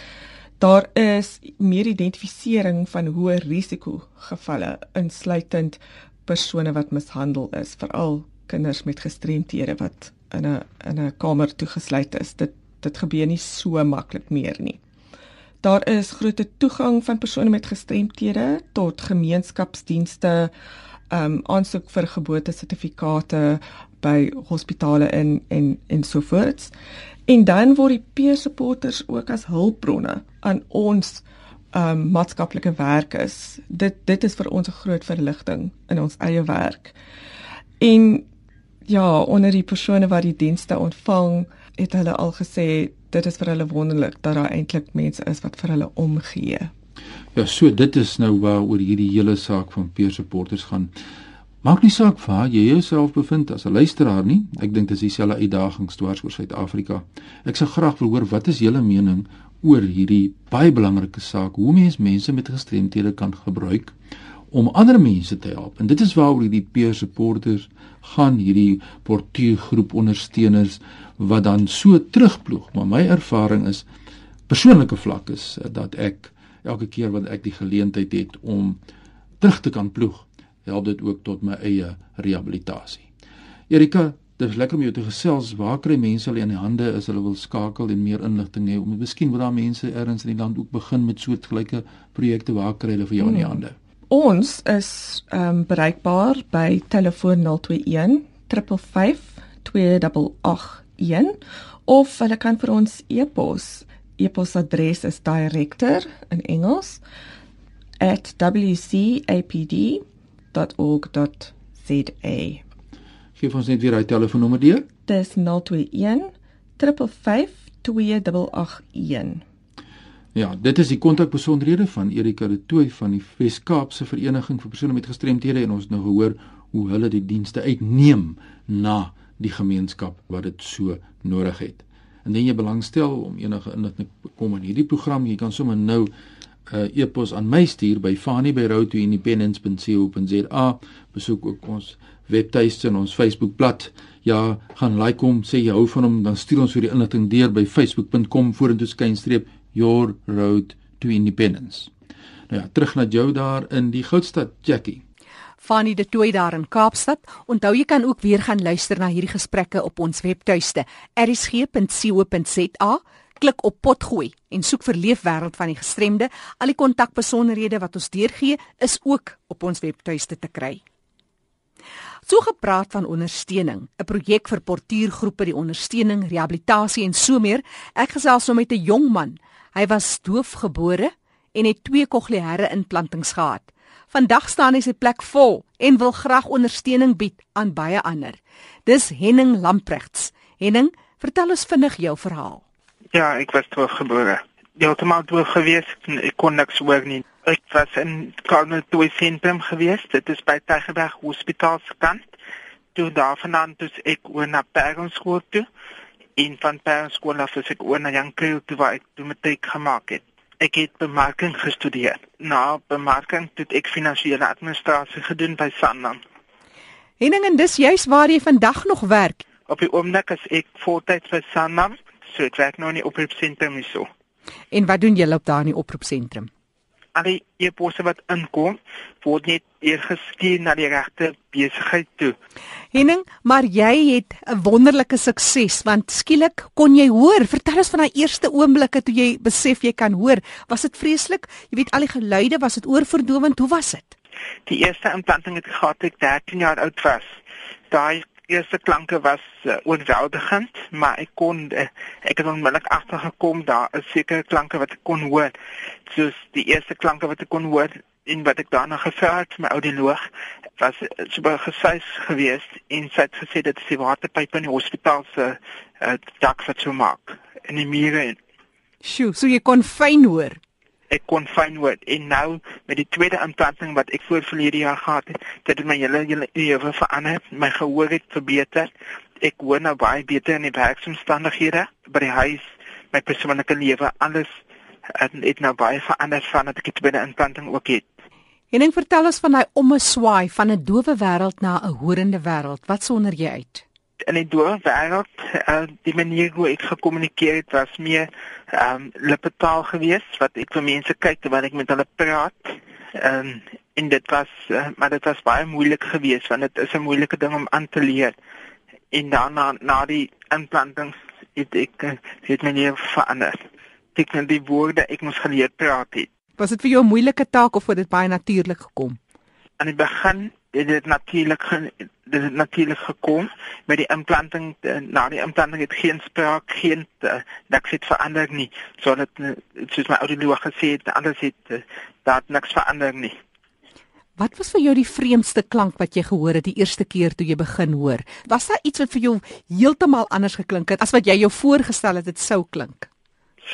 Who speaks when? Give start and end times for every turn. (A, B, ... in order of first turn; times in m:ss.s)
0:00.6-0:14.8 A
0:15.6-0:20.5 A
0:21.1-0:26.7 A
0:27.3-0:36.9 A
0:37.8-0:38.3 A
0:38.9-0:46.7 A
0:47.3-0:50.9 B
0:51.6-1:03.9 B
1:04.5-1:13.8 B
1:14.5-1:18.8 B
1:19.4-1:23.0 B
1:23.7-1:33.7 B
1:33.2-1:47.0 A
1:48.0-1:52.6 A
1:53.4-1:54.9 B
1:55.0-1:59.4 A
2:00.3-2:16.1 B
2:16.7-2:31.9 B
2:32.5-2:35.0 B
2:35.6-2:50.8 C
2:52.3-3:12.6 C
3:13.1-3:22.2 D
3:22.9-3:25.7 D
3:26.4-3:36.2 D
3:37.2-3:39.4 C
3:39.7-3:44.1 D
3:44.7-3:46.5 C
3:47.1-3:52.3 D
3:52.9-4:04.1 C
4:04.6-4:07.3 D
4:07.9-4:15.5 D
4:16.1-4:20.2 D
4:20.8-4:28.4 D
4:29.0-4:30.6 C
4:31.1-4:44.5 D
4:45.1-4:48.0 D
4:48.7-4:53.8 C
4:54.2-5:08.3 D
5:09.1-5:13.6 D
5:14.1-5:16.3 D
5:16.6-5:19.2 C
5:19.8-5:33.3 D
5:34.4-5:43.1 C